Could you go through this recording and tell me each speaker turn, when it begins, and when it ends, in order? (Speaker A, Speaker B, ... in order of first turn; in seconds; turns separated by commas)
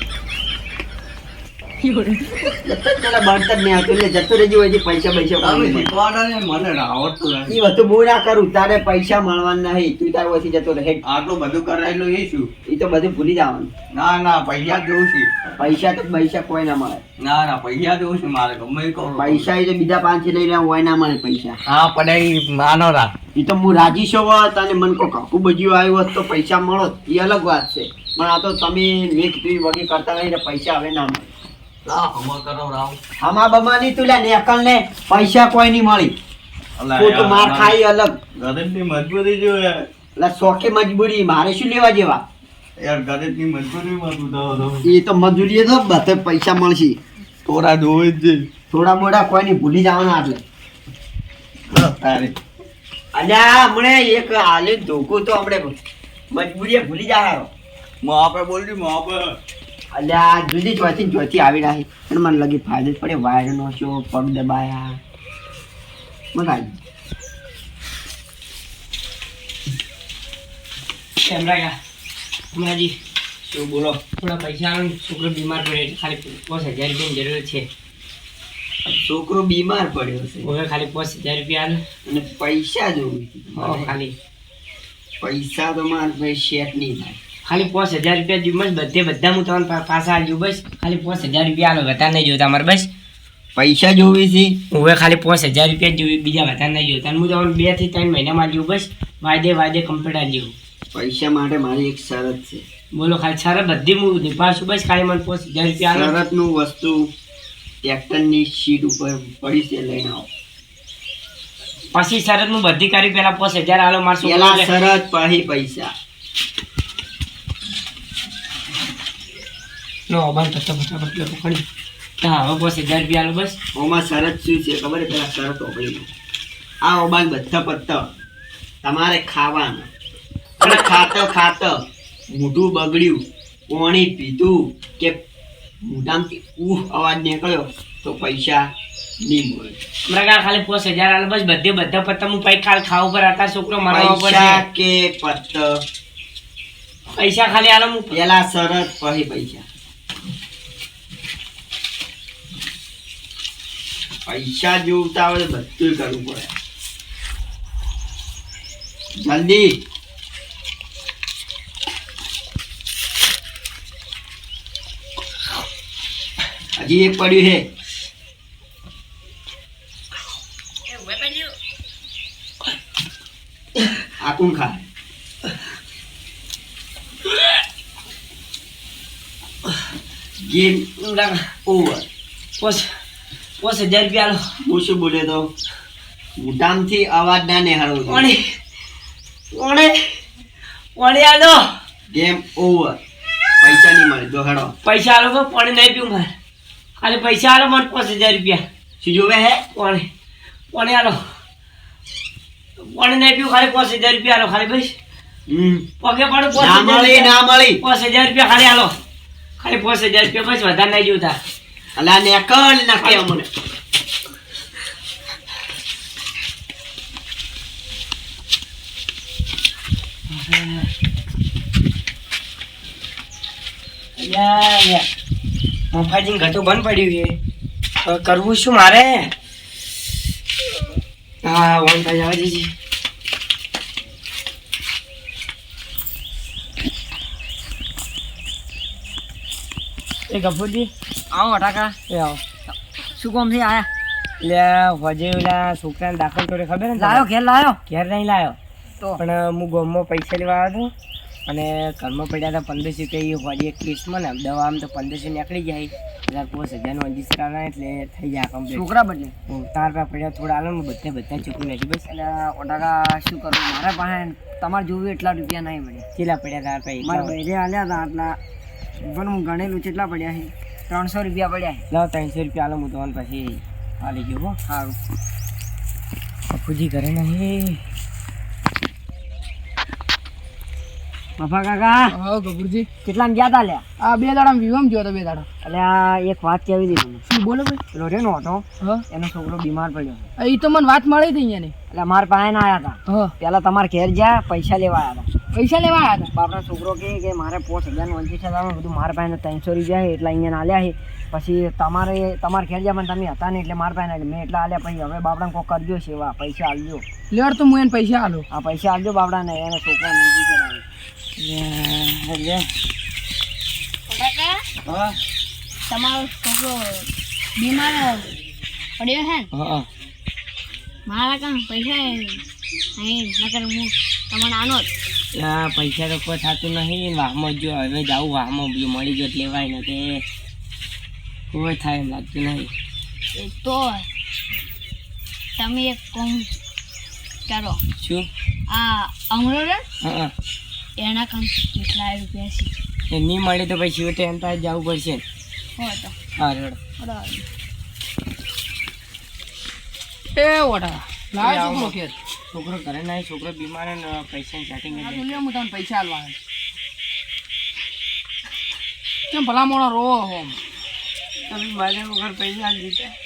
Speaker A: 2.6-5.9, Speaker B: 5.4-7.6, Speaker A: 7.5-11.0, Speaker B: 11.0-12.5, Speaker A: 12.7-13.7, Speaker B: 13.9-15.3, Speaker A: 15.6-17.0, Speaker B: 17.2-19.5, Speaker A: 19.2-21.6, Speaker B: 21.7-23.1, Speaker A: 23.3-31.3, Speaker B: 31.8-33.0, Speaker A: 33.2-36.2, Speaker B: 36.8-37.8, Speaker A: 36.9-38.2, Speaker B: 38.4-39.9, Speaker A: 40.2-42.2, Speaker B: 42.8-44.9, Speaker A: 44.8-47.0, Speaker B: 47.4-48.5, Speaker A: 48.7-50.4, Speaker B: 51.7-52.4, Speaker A: 53.1-55.8, Speaker A: 56.3-57.5, Speaker B: 58.0-59.4, Speaker A: 59.9-65.0, Speaker A: 66.3-66.8, Speaker C: 71.2-71.8, Speaker C: 72.5-72.9, Speaker A: 73.4-74.0, Speaker C: 74.2-77.7, Speaker A: 78.8-80.5, Speaker C: 80.4-81.8, Speaker A: 82.0-83.9, Speaker C: 83.5-84.1, Speaker A: 85.2-87.2, Speaker C: 87.4-92.9, Speaker A: 93.5-94.6, Speaker C: 94.7-100.6, Speaker A: 100.9-102.6, Speaker C: 102.9-106.1, Speaker A: 105.9-107.1, Speaker A: 107.8-110.3, Speaker C: 111.9-114.7, Speaker A: 114.2-115.9, Speaker C: 120.1-121.6, Speaker C: 122.2-123.6, Speaker A: 123.8-126.1, Speaker A: 126.8-128.1, Speaker A: 128.8-129.9, Speaker A: 130.6-135.2, Speaker C: 130.6-131.0, Speaker A: 135.8-138.7, Speaker A: 139.2-139.8, Speaker C: 140.1-144.6, Speaker A: 143.9-145.8, Speaker C: 147.1-148.2, Speaker A: 148.1-149.7, Speaker A: 154.2-156.6, Speaker A: 159.2-159.8, Speaker A: 166.8-167.6, Speaker A: 174.2-174.8, Speaker A: 180.4-180.9, Speaker C: 181.0-181.4, Speaker A: 181.6-182.1, Speaker C: 182.6-182.9, Speaker C: 183.6-184.4, Speaker A: 184.6-185.5, Speaker A: 186.4-188.3, Speaker C: 188.1-188.5, Speaker C: 189.5-190.0, Speaker C: 190.9-191.7, Speaker A: 192.1-193.0, Speaker A: 193.6-194.7, Speaker C: 194.8-196.3, Speaker C: 197.0-198.6, Speaker A: 199.0-199.6, Speaker C: 199.7-200.1, Speaker C: 200.7-201.2, Speaker C: 202.8-204.9, Speaker A: 205.5-205.8, Speaker C: 206.0-208.9, Speaker A: 206.6-207.8, Speaker C: 209.6-211.4, Speaker A: 211.9-213.5, Speaker C: 220.3-220.9, Speaker C: 224.2-225.1, Speaker C: 225.9-227.4, Speaker C: 228.0-229.3, Speaker C: 231.4-232.7, Speaker C: 240.3-240.9, Speaker D: 241.3-242.0, Speaker C: 242.1-242.4, Speaker D: 242.7-243.9, Speaker C: 244.4-247.3, Speaker D: 247.0-247.8, Speaker C: 247.9-248.6, Speaker C: 249.2-250.9, Speaker C: 251.5-258.8, Speaker D: 258.7-259.3, Speaker C: 259.5-262.1, Speaker D: 262.1-266.1, Speaker C: 266.1-267.3, Speaker D: 267.0-268.4, Speaker D: 269.1-271.8, Speaker C: 271.9-274.6, Speaker D: 274.7-275.0, Speaker C: 276.5-277.8, Speaker D: 281.4-282.2, Speaker E: 282.1-282.9, Speaker D: 283.0-283.8, Speaker E: 284.0-285.5, Speaker D: 285.6-287.2, Speaker E: 287.3-287.8, Speaker D: 287.9-290.3, Speaker E: 290.4-291.7, Speaker D: 291.9-295.3, Speaker E: 295.5-296.3, Speaker D: 296.3-307.1, Speaker E: 307.3-308.4, Speaker D: 308.5-310.8, Speaker C: 311.4-312.7, Speaker F: 314.1-314.6, Speaker C: 314.9-315.2, Speaker F: 315.9-317.1, Speaker F: 317.6-318.3, Speaker F: 319.0-319.5, Speaker C: 319.5-319.9, Speaker F: 321.1-322.4, Speaker F: 323.0-324.9, Speaker C: 325.3-330.2, Speaker C: 331.5-332.7, Speaker F: 333.3-334.1, Speaker F: 335.6-336.5, Speaker F: 337.5-337.8, Speaker C: 338.0-338.3, Speaker F: 338.7-339.8, Speaker C: 340.0-340.3, Speaker F: 341.0-342.7, Speaker C: 343.1-345.2, Speaker F: 345.8-346.1, Speaker C: 346.4-346.8, Speaker F: 347.0-347.4, Speaker E: 350.3-352.1, Speaker C: 351.4-351.9, Speaker C: 352.5-355.4, Speaker E: 354.9-356.4, Speaker E: 359.3-360.6, Speaker C: 361.5-363.1